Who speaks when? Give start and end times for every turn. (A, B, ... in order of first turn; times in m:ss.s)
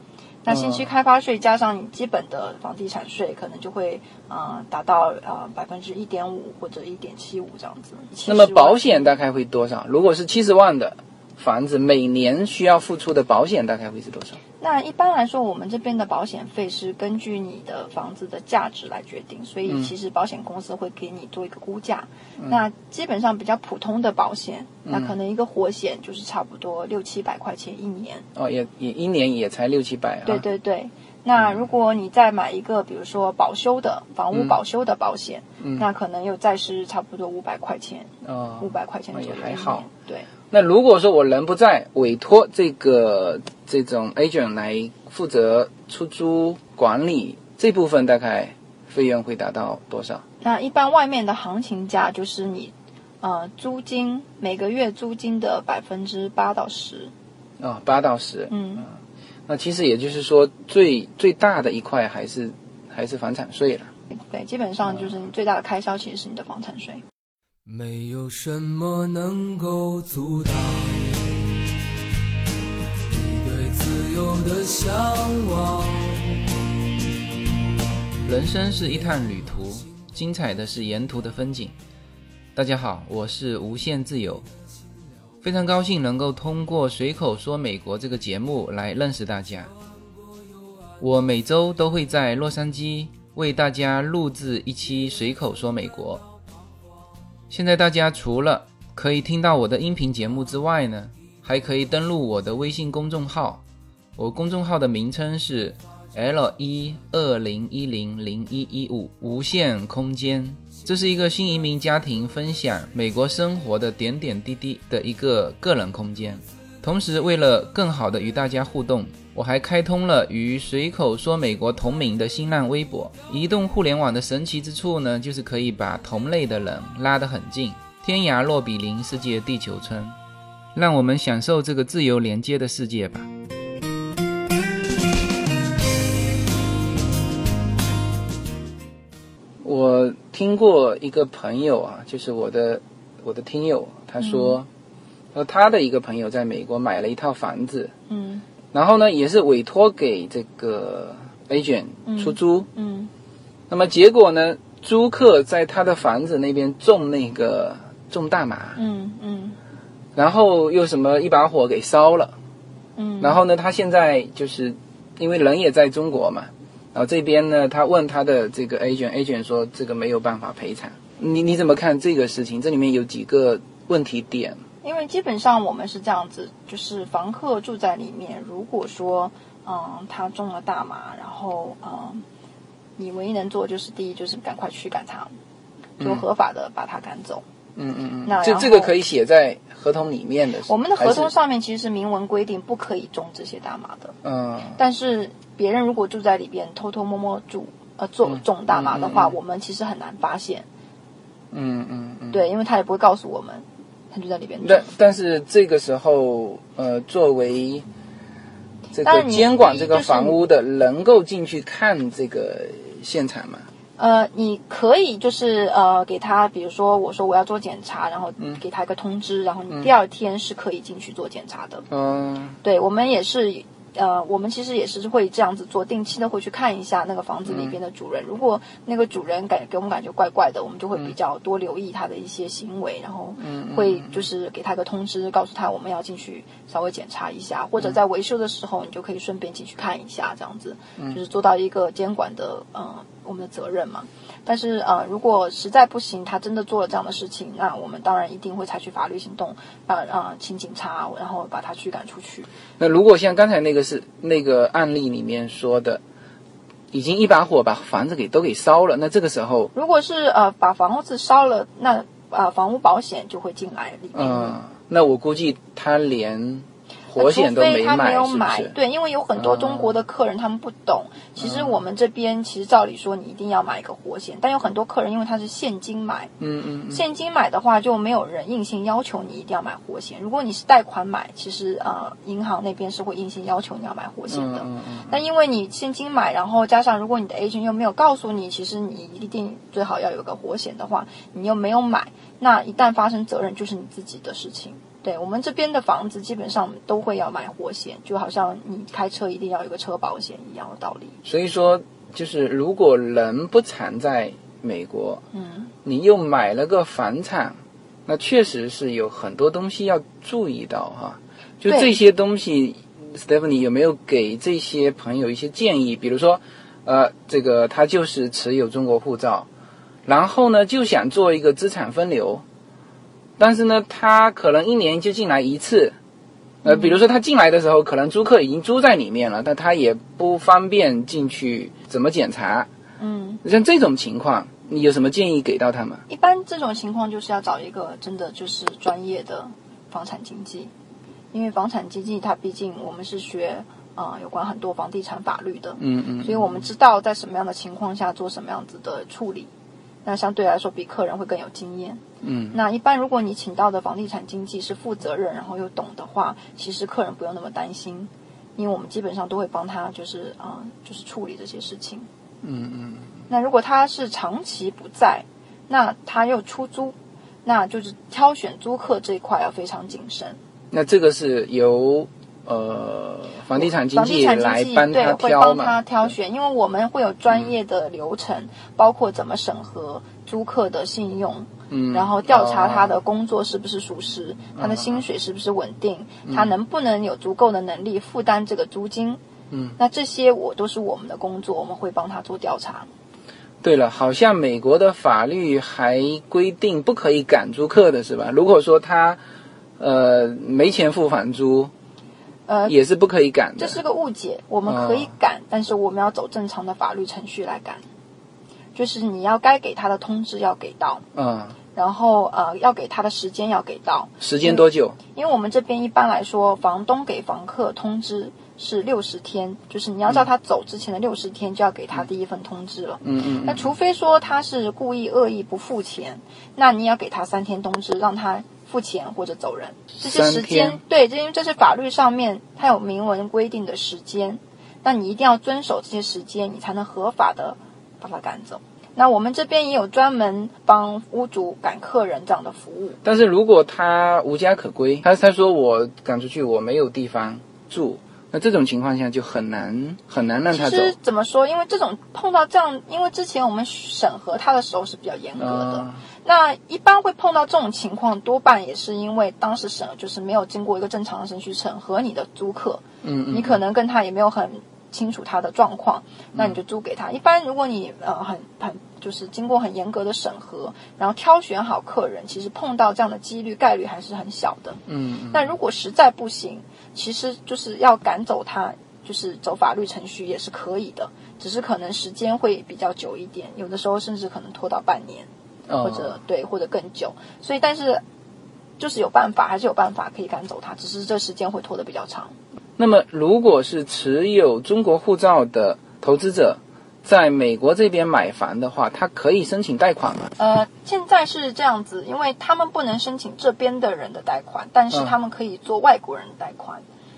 0:00.4-0:09.1 A
0:00.5-0:00.9 B
0:08.3-0:14.4 B
0:14.6-0:28.3 A
0:19.7-0:19.9 B
0:24.9-0:25.1 B
0:28.4-0:30.4 B
0:30.2-0:38.1 A
0:31.4-0:31.6 B
0:34.3-0:34.6 B
0:35.6-0:35.9 B
0:38.2-0:39.9 B
0:38.6-0:40.3 A
0:40.5-0:50.2 B
0:50.4-0:57.1 A
0:57.6-0:58.9 B
0:58.5-0:58.9 A
0:59.5-1:03.9 B
1:04.1-1:07.0 A
1:07.6-1:11.8 C
1:13.1-1:16.7 C
1:18.2-1:21.8 B
1:18.5-1:19.7 C
1:22.6-1:24.5 B
1:25.4-1:29.7 B
1:31.0-1:36.2 B
1:37.5-1:43.6 B
1:44.2-2:10.2 B
2:10.8-2:13.3 B
2:19.6-2:24.7 B
2:24.2-2:24.6 A
2:25.3-2:27.9 B
2:28.1-2:28.4 A
2:28.7-2:32.7 B
2:32.1-2:33.1 A
2:33.7-2:38.8 B
2:38.8-2:39.6 A
2:40.1-2:42.4 B
2:43.0-2:43.4 A
2:43.2-2:54.6 B
2:54.8-3:02.2 A
3:03.0-3:05.3 A
3:06.0-3:07.4 A
3:07.8-3:11.3 B
3:08.2-3:08.9 A
3:10.7-3:14.1 A
3:14.2-3:14.8 B
3:14.8-3:20.6 A
3:18.3-3:19.4 B
3:21.5-3:22.4 B
3:22.3-3:24.8 A
3:24.6-3:27.9 B
3:28.9-3:33.7 B
3:29.0-3:30.4 A
3:34.0-3:41.8 A
3:41.9-3:42.6 B
3:42.6-4:12.5 A
3:47.5-3:47.8 B
3:53.4-3:54.2 B
4:12.8-4:16.0 B
4:16.9-4:19.7 B
4:19.7-4:24.6 A
4:24.1-4:28.8 B
4:27.2-4:36.3 A
4:29.4-4:29.9 B
4:31.4-4:31.8 B
4:36.4-4:37.0 B
4:36.9-5:01.2 A
4:44.3-4:45.2 B
5:01.2-5:05.2 B
5:05.3-5:05.7 A
5:05.8-5:07.6 B
5:08.1-5:19.5 B
5:11.7-5:11.9 A
5:20.1-5:22.4 B
5:23.4-5:25.9 B
5:26.6-5:32.7 B
5:26.6-5:26.9 A
5:33.0-5:33.4 A
5:33.4-5:36.0 B
5:36.1-5:40.7 A
5:41.3-5:49.5 A
5:45.8-5:46.6 B
5:50.0-6:02.1 A
5:52.2-5:52.6 B
6:02.4-6:03.1 B
6:03.3-6:10.4 A
6:10.7-6:16.1 B
6:13.6-6:29.2 A
6:21.7-6:23.0 B
6:24.6-6:25.0 B
6:26.3-6:26.5 B
6:29.5-6:29.8 B
6:29.8-6:32.9 A
6:33.6-6:39.2 B
6:39.8-6:41.7 B
6:42.5-6:42.8 A
6:42.7-6:43.8 B
6:43.6-6:47.8 A
6:44.6-6:45.1 B
6:48.8-6:51.0 A
6:51.1-6:51.6 B
6:51.7-7:23.0 A
6:54.2-6:55.0 B
7:03.0-7:03.7 B
7:10.0-7:10.8 B
7:23.0-7:30.9 B
7:30.5-8:05.3 A
7:35.4-7:36.0 B
7:43.0-7:43.6 B
7:54.9-7:55.5 B
8:05.7-8:06.2 B
8:05.8-8:08.0 A
8:08.8-8:12.4 A
8:12.8-8:20.3 B
8:20.4-8:26.8 A